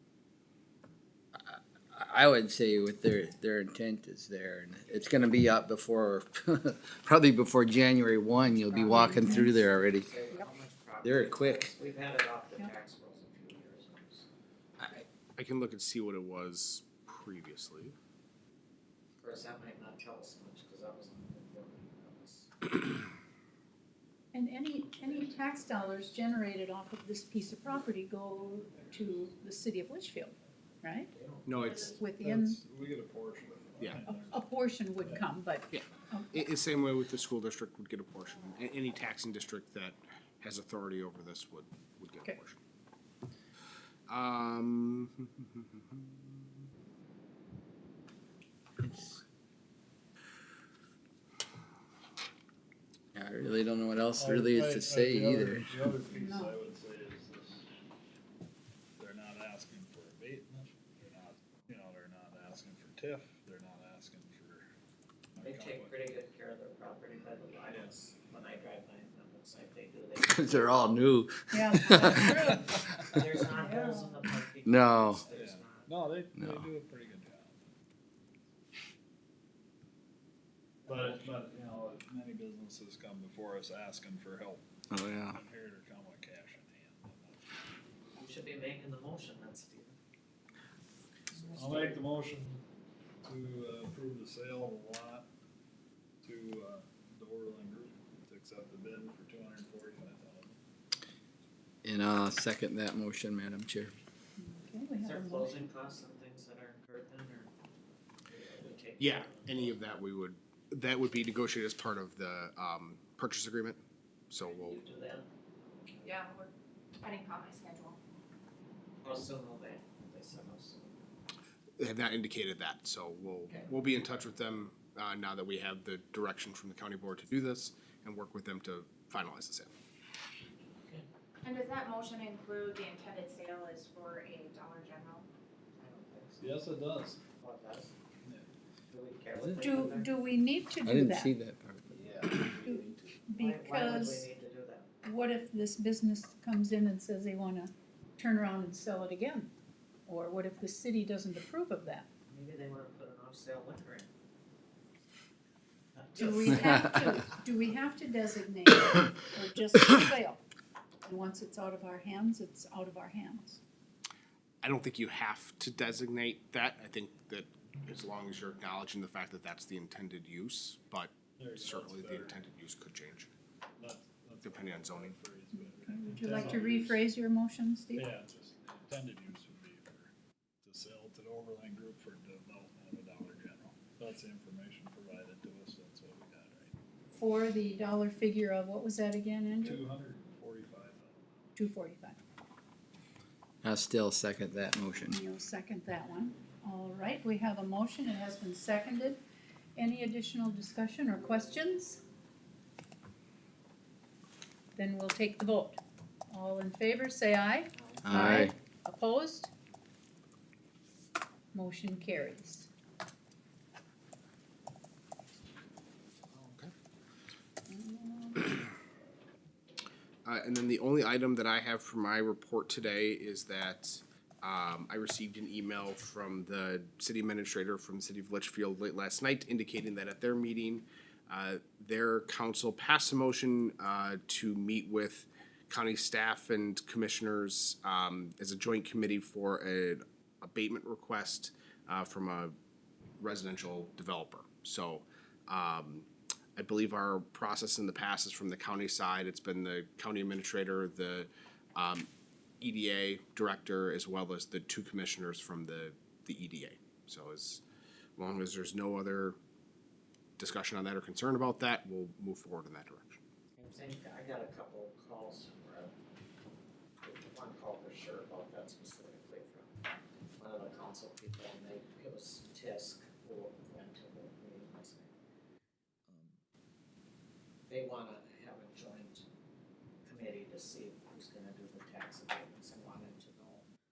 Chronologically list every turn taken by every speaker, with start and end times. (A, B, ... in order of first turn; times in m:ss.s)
0:01.4-0:10.1 A
0:08.7-0:09.5 B
0:08.9-0:14.3 C
0:11.0-0:11.7 A
0:14.9-0:18.0 D
0:19.2-0:22.5 C
0:24.3-0:31.1 B
0:24.9-0:26.1 C
0:31.1-0:32.0 C
0:31.5-0:32.0 D
0:31.7-0:32.6 B
0:32.1-0:35.3 E
0:34.0-0:36.5 B
0:35.7-0:42.6 D
0:44.1-0:46.3 D
0:48.8-0:49.2 A
0:53.2-0:55.8 A
0:54.1-0:57.7 E
0:56.1-0:56.6 B
0:59.0-1:04.7 E
1:05.4-1:06.0 E
1:05.4-1:10.8 C
1:07.6-1:08.0 E
1:10.2-1:12.6 A
1:11.5-1:12.7 B
1:12.0-1:16.0 C
1:13.5-1:14.2 B
1:14.6-1:15.2 A
1:15.3-1:17.7 E
1:16.4-1:16.7 A
1:20.8-1:21.2 C
1:20.9-1:24.7 E
1:24.9-1:25.4 A
1:25.3-1:27.5 E
1:28.2-1:30.0 C
1:31.3-1:32.0 C
1:31.5-1:32.6 E
1:33.2-1:35.3 E
1:36.2-1:40.6 E
1:41.8-1:43.9 A
1:44.4-1:45.6 B
1:45.0-1:47.5 C
1:48.3-1:49.8 C
1:49.0-1:53.8 D
1:54.3-1:54.8 D
1:54.4-1:56.3 C
1:56.0-1:58.0 F
1:59.0-2:01.2 C
2:01.8-2:09.7 D
2:11.4-2:15.3 F
2:15.8-2:16.5 C
2:16.4-2:17.2 E
2:17.4-2:17.9 C
2:18.9-2:20.1 C
2:19.4-2:19.8 A
2:19.6-2:21.3 B
2:20.8-2:22.8 A
2:21.9-2:22.2 E
2:22.4-2:24.3 B
2:23.4-2:24.9 C
2:25.0-2:29.5 B
2:30.1-2:32.1 B
2:32.3-2:34.1 C
2:35.9-2:37.1 C
2:36.2-2:40.4 B
2:41.0-2:43.6 B
2:44.6-2:53.3 D
2:51.4-2:52.4 E
2:53.8-2:57.0 E
2:54.4-2:55.2 D
2:55.5-2:58.1 B
2:58.0-3:00.1 E
3:00.6-3:06.8 E
3:07.2-3:09.8 B
3:09.6-3:11.6 E
3:11.6-3:12.2 B
3:13.6-3:15.2 A
3:15.1-3:19.2 B
3:19.8-3:22.0 B
3:24.8-3:29.5 B
3:27.8-3:28.5 C
3:28.0-3:28.5 A
3:31.5-3:32.7 B
3:37.7-3:38.5 B
3:40.2-4:02.6 D
4:03.2-4:12.1 D
4:12.6-4:17.6 D
4:18.2-4:19.4 D
4:20.4-4:23.2 D
4:23.6-4:25.9 C
4:27.0-4:29.7 C
4:30.4-4:35.2 C
4:37.7-4:39.2 C
4:40.0-4:43.7 C